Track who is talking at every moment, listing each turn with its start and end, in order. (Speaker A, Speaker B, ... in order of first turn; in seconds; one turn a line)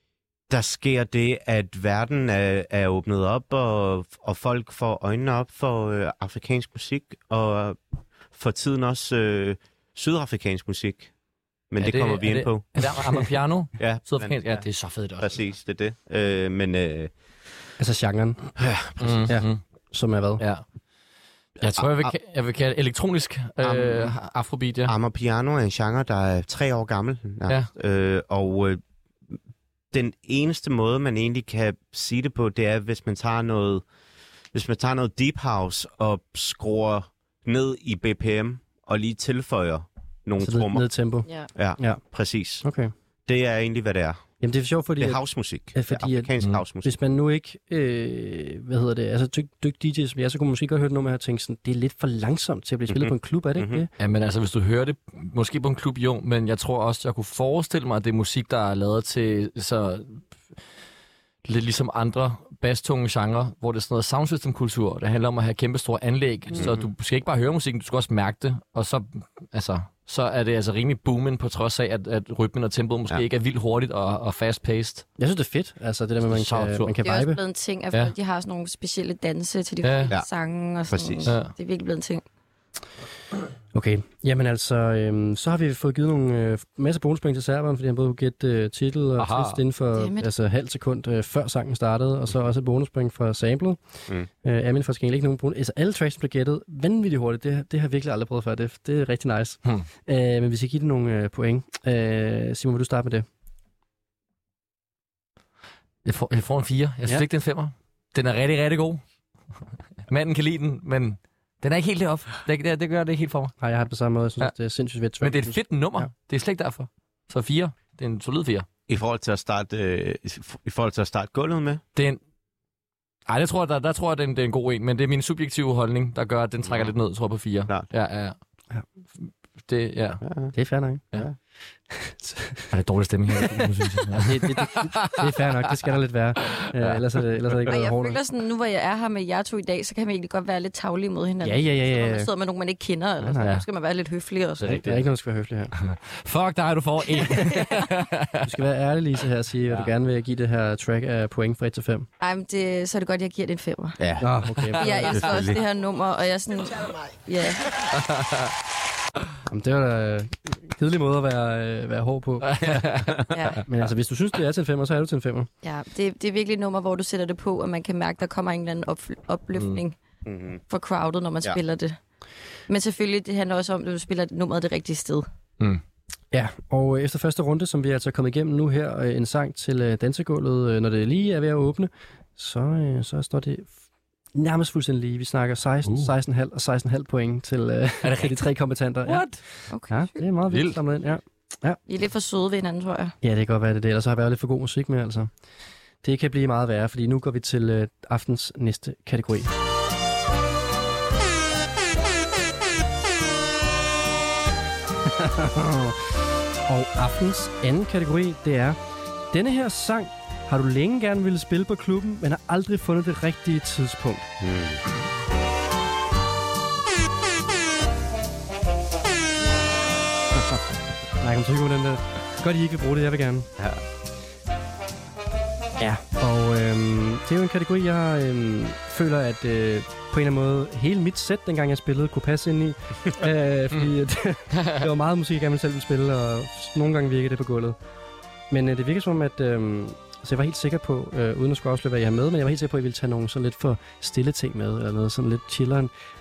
Speaker A: 0.5-7.8
Speaker A: 8.3-11.1
Speaker A: 11.7-12.9
Speaker B: 11.8-15.4
Speaker A: 13.8-14.6
Speaker A: 15.2-17.1
Speaker C: 17.8-18.5
Speaker A: 18.6-19.3
Speaker B: 19.0-19.6
Speaker C: 19.3-20.4
Speaker B: 21.6-24.9
Speaker A: 21.8-22.1
Speaker A: 23.6-24.1
Speaker A: 24.9-29.4
Speaker A: 29.9-33.8
Speaker A: 34.5-40.9
Speaker C: 40.4-42.0
Speaker A: 41.5-42.6
Speaker C: 42.6-42.9
Speaker A: 43.3-44.3
Speaker C: 44.4-46.3
Speaker A: 45.0-46.9
Speaker C: 46.8-53.9
Speaker A: 52.9-53.8
Speaker B: 54.0-60.2
Speaker B: 61.4-75.0
Speaker C: 75.2-77.4
Speaker B: 76.3-76.9
Speaker D: 77.0-82.2
Speaker B: 79.8-80.1
Speaker A: 80.9-81.3
Speaker B: 81.2-81.5
Speaker C: 83.7-93.8
Speaker B: 89.2-89.6
Speaker D: 89.9-90.3
Speaker C: 94.4-103.2
Speaker B: 106.0-109.0
Speaker B: 110.1-113.5
Speaker C: 113.6-116.1
Speaker B: 115.2-118.7
Speaker A: 118.9-121.8
Speaker B: 123.3-128.3
Speaker A: 126.6-126.9
Speaker B: 129.2-130.2
Speaker A: 130.2-130.5
Speaker C: 130.5-131.0
Speaker C: 131.9-132.7
Speaker B: 132.7-135.3
Speaker C: 133.3-138.2
Speaker B: 136.5-137.0
Speaker D: 137.7-144.7
Speaker C: 141.4-142.3
Speaker C: 143.2-143.6
Speaker B: 144.6-145.0
Speaker C: 144.6-145.7
Speaker B: 145.8-148.5
Speaker C: 148.4-152.1
Speaker D: 152.2-154.0
Speaker A: 154.0-154.3
Speaker C: 154.2-155.3
Speaker D: 154.8-157.7
Speaker A: 155.1-155.6
Speaker B: 158.0-158.5
Speaker C: 159.4-163.0
Speaker B: 162.4-163.2
Speaker D: 163.3-163.6
Speaker C: 163.7-165.5
Speaker D: 165.6-170.0
Speaker B: 169.5-169.8
Speaker A: 170.2-170.6
Speaker D: 170.7-172.0
Speaker D: 172.7-175.2
Speaker C: 176.3-183.7
Speaker C: 184.3-189.3
Speaker B: 185.8-186.1
Speaker B: 188.0-188.4
Speaker B: 189.1-189.4
Speaker D: 189.7-190.2
Speaker C: 189.9-191.8
Speaker B: 190.5-190.8
Speaker D: 191.9-193.1
Speaker C: 193.2-195.3
Speaker C: 196.0-199.5
Speaker C: 205.0-208.8
Speaker C: 209.3-214.3
Speaker A: 214.4-214.8
Speaker C: 221.2-223.5
Speaker C: 225.8-237.8
Speaker C: 238.5-245.9